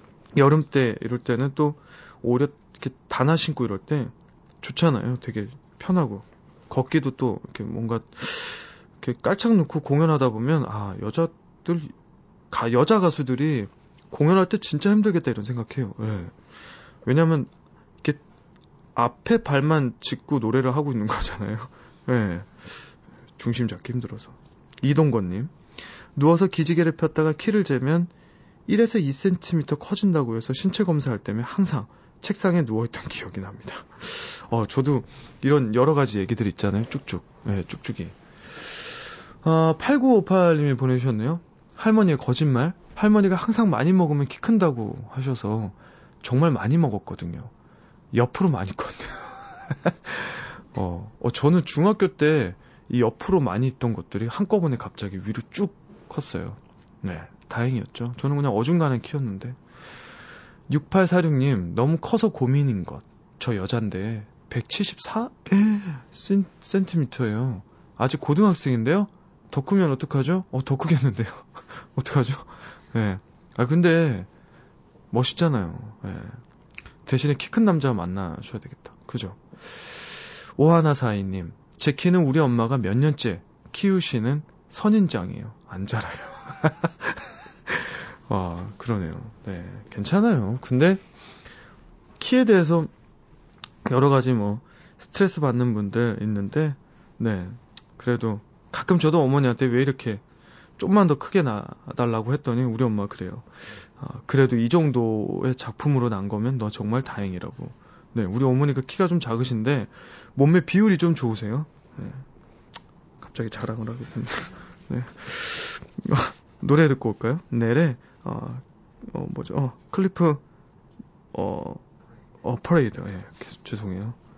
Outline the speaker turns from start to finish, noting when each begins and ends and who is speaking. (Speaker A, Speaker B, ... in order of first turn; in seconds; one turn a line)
Speaker A: 0.3-11.9
Speaker A: 12.5-16.4
Speaker A: 17.0-17.5
Speaker A: 18.9-22.8
Speaker A: 23.4-25.6
Speaker A: 26.1-28.1
Speaker A: 28.7-47.5
Speaker A: 48.1-59.6
Speaker A: 60.7-74.3
Speaker A: 75.1-76.4
Speaker A: 77.0-91.0
Speaker A: 92.2-92.9
Speaker A: 93.8-100.2
Speaker A: 100.8-112.2
Speaker A: 113.2-120.4
Speaker A: 121.3-121.8
Speaker A: 122.4-124.2